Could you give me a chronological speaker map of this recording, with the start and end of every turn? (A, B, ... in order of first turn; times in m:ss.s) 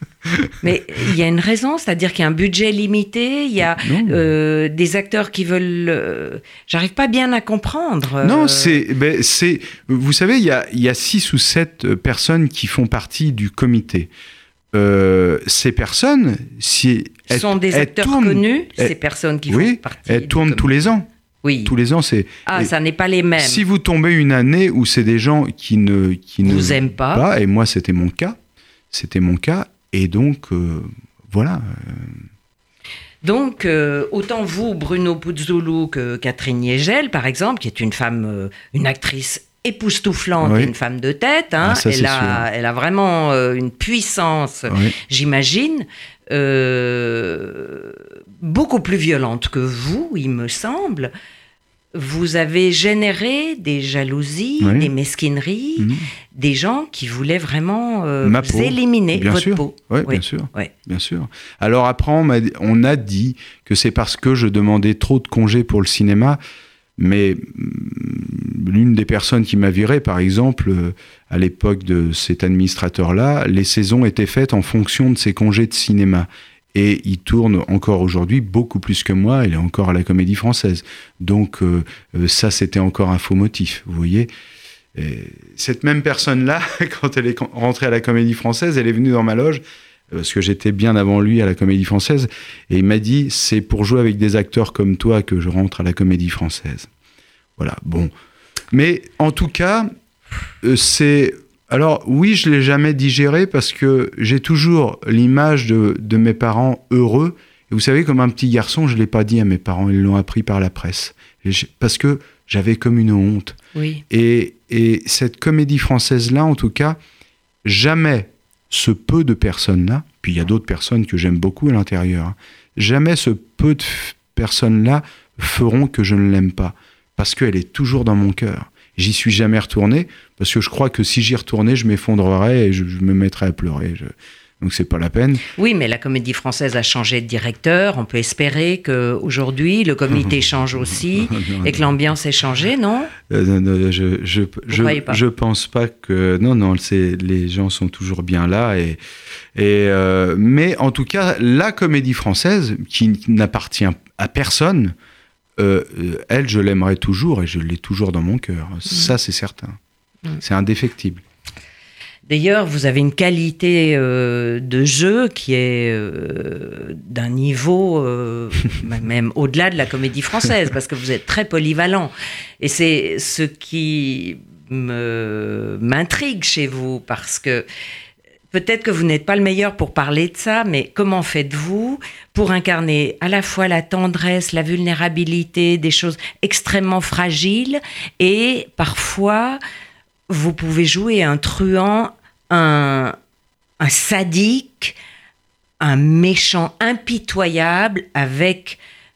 0:00.2-0:00.6 A
0:00.6-0:08.8 B
0:03.8-0:04.2 A
0:08.2-0:14.1 A
0:14.7-0:19.0 A
0:17.3-0:20.7 B
0:19.5-0:21.1 A
0:21.4-0:21.7 B
0:21.6-0:22.7 A
0:22.5-0:23.6 B
0:23.4-0:28.4 A
0:26.4-0:27.2 B
0:28.9-0:32.2 A
0:33.2-0:51.1 B
0:40.4-0:40.7 A
0:41.6-0:42.5 A
0:44.7-0:44.9 A
0:51.9-1:00.7 B
0:54.6-0:54.9 A
0:55.8-0:56.1 A
0:58.2-1:06.4 A
1:07.0-1:24.3 A
1:25.0-1:36.9 A
1:37.6-1:38.1 A
1:38.7-1:39.9 A
1:40.6-1:53.6 A
1:53.8-1:54.0 B
1:54.1-1:57.0 A
1:57.6-2:15.4 A
2:15.6-2:23.1 B
2:20.9-2:21.9 A
2:23.3-2:29.0 A
2:24.7-2:25.2 B
2:29.6-2:35.0 A
2:35.6-2:39.8 A
2:40.4-2:41.2 A
2:42.3-2:57.6 B
2:58.5-3:09.6 B
3:10.3-3:13.2 B
3:13.8-3:15.0 B
3:15.8-3:18.8 B